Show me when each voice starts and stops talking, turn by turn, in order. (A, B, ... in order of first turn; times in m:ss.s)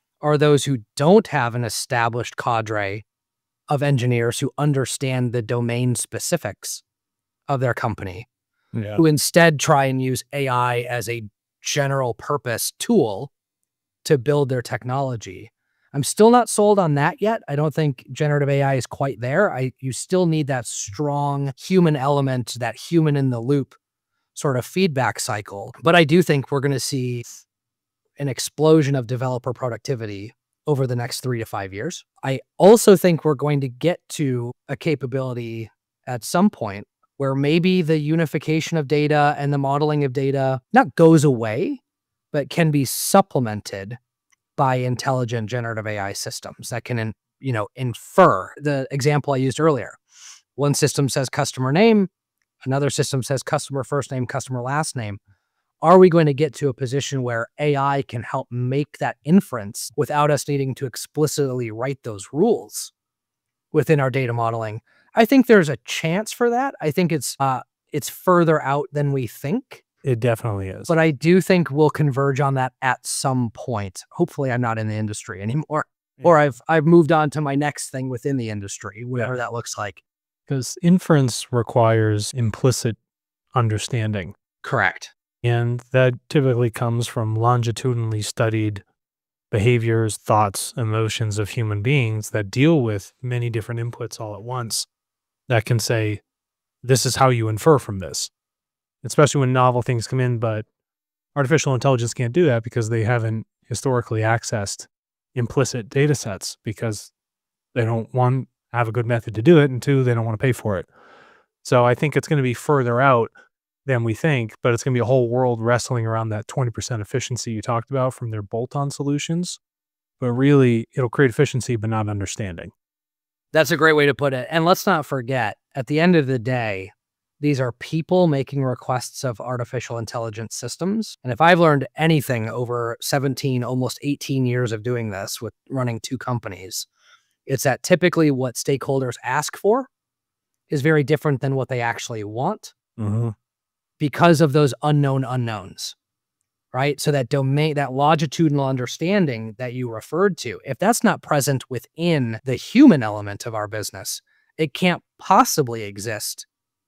0:00.2-0:03.0 A
0:03.7-0:06.8 A
0:07.5-0:08.2 A
0:08.7-0:09.0 B
0:09.0-0:13.3 A
0:14.0-0:23.8 A
0:24.3-0:27.2 A
0:28.2-0:41.8 A
0:42.3-0:44.0 A
0:44.6-0:50.0 A
0:50.6-0:52.1 A
0:52.6-0:55.2 A
0:55.8-1:02.9 A
1:03.7-1:09.8 A
1:10.0-1:10.9 B
1:10.9-1:20.0 A
1:20.5-1:23.0 B
1:23.5-1:24.3 B
1:24.6-1:25.1 A
1:25.4-1:28.8 B
1:29.5-1:34.9 B
1:35.5-1:36.2 B
1:36.8-1:38.3 B
1:39.0-1:40.6 B
1:41.3-1:47.1 B
1:47.7-1:50.9 B
1:51.6-1:53.3 B
1:53.8-1:59.6 B
2:00.2-2:02.7 B
2:03.5-2:16.9 A
2:17.5-2:19.9 A
2:20.7-2:22.7 A
2:23.0-2:23.3 B
2:24.0-2:25.9 A
2:26.7-2:36.5 A